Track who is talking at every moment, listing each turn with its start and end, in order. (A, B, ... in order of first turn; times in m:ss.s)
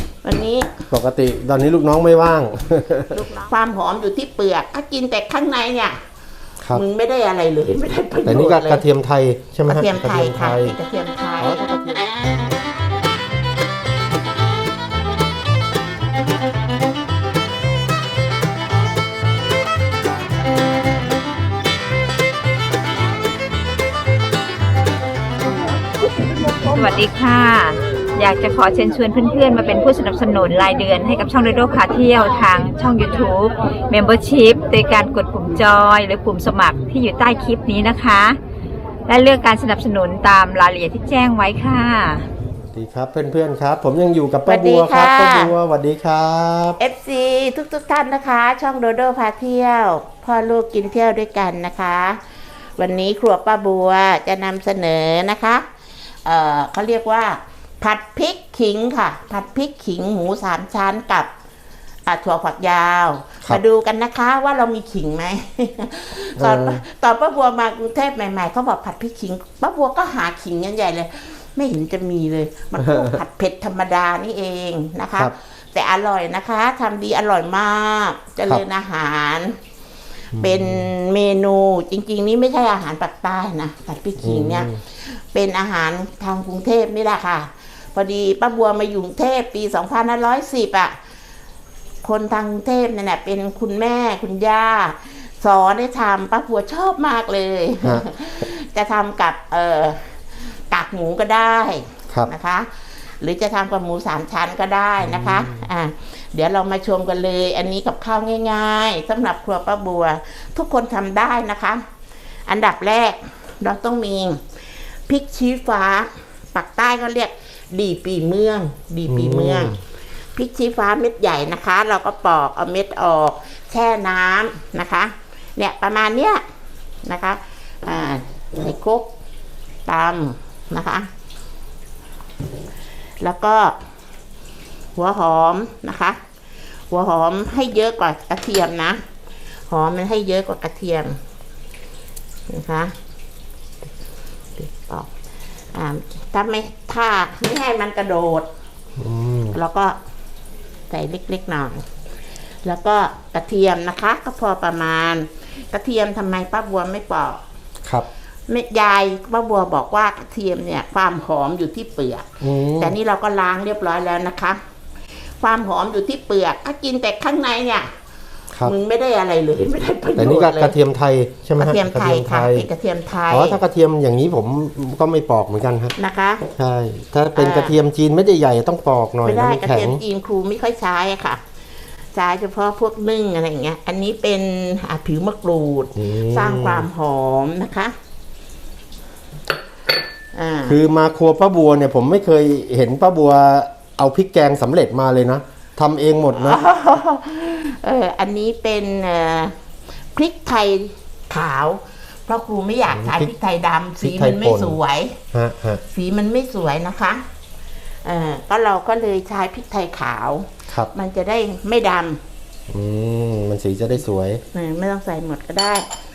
0:00.2-0:00.7 A
0:00.9-0:03.2 B
0:03.1-0:06.0 A
0:06.7-0:08.8 A
0:08.2-0:10.8 B
0:09.7-0:11.6 A
0:11.4-0:12.1 B
0:26.8-0:38.3 C
0:39.1-0:42.0 C
0:42.7-0:46.8 B
0:44.5-0:45.5 A
0:46.8-0:52.2 A
0:52.8-0:55.6 A
0:56.2-1:01.3 A
1:02.1-1:19.6 A
1:06.4-1:06.8 B
1:12.8-1:13.2 B
1:20.3-1:20.9 B
1:20.4-1:30.9 A
1:24.2-1:24.8 B
1:32.0-1:42.7 A
1:43.2-1:51.8 A
1:45.0-1:45.7 B
1:52.5-1:59.8 A
1:59.1-1:59.8 B
2:00.3-2:06.4 A
2:07.0-2:09.1 A
2:09.8-2:11.1 A
2:13.2-2:13.8 A
2:15.0-2:16.2 A
2:16.9-2:19.0 A
2:19.7-2:21.2 A
2:22.5-2:22.9 A
2:24.6-2:25.1 A
2:25.7-2:28.5 A
2:29.0-2:29.6 B
2:29.5-2:30.0 A
2:30.9-2:31.8 A
2:32.6-2:37.4 A
2:38.5-2:42.3 A
2:42.4-2:43.0 B
2:42.8-2:44.6 A
2:45.4-2:47.9 A
2:48.6-2:50.8 A
2:50.2-2:52.7 B
2:51.6-2:53.6 A
2:53.3-2:55.9 B
2:56.0-2:56.4 A
2:56.5-3:00.0 B
2:57.4-2:57.7 A
2:59.2-3:01.4 A
3:02.1-3:07.9 A
3:06.0-3:06.9 B
3:10.3-3:10.8 A
3:10.6-3:16.6 B
3:16.3-3:19.5 A
3:20.1-3:25.2 A
3:22.9-3:23.3 B
3:24.0-3:24.8 B
3:25.3-3:25.8 B
3:25.9-3:27.2 A
3:28.0-3:32.2 A
3:32.7-3:34.4 B
3:34.5-3:35.9 A